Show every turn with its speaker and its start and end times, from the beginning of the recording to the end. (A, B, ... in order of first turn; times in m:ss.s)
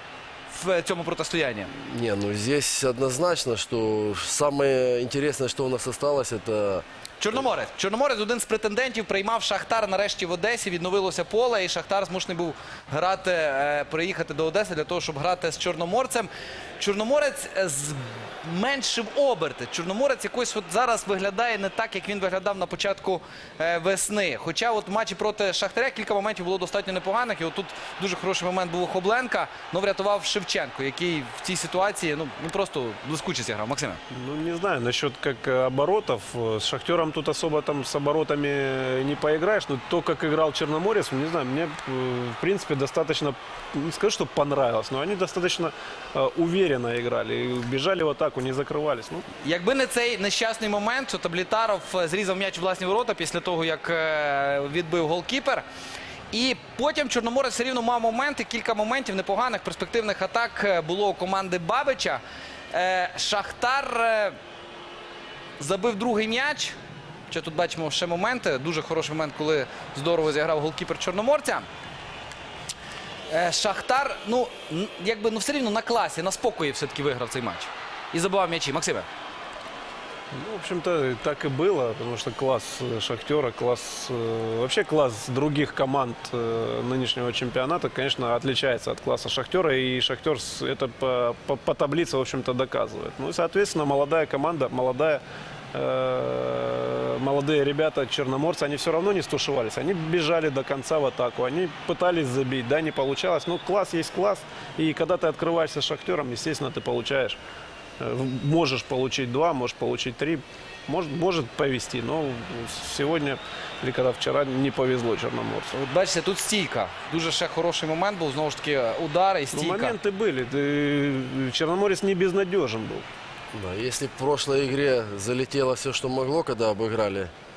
0:00.5-0:01.7 A
0:01.7-0:07.4 B
0:07.2-0:34.0 A
0:34.1-0:49.2 C
0:49.4-0:55.6 A
0:56.3-1:04.4 A
1:05.6-1:06.8 A
1:07.3-1:11.7 A
1:13.3-1:19.1 A
1:20.3-1:35.2 C
1:35.7-1:47.4 C
1:48.0-1:55.7 C
1:55.7-2:00.0 A
1:59.5-2:03.1 C
2:03.5-2:07.3 B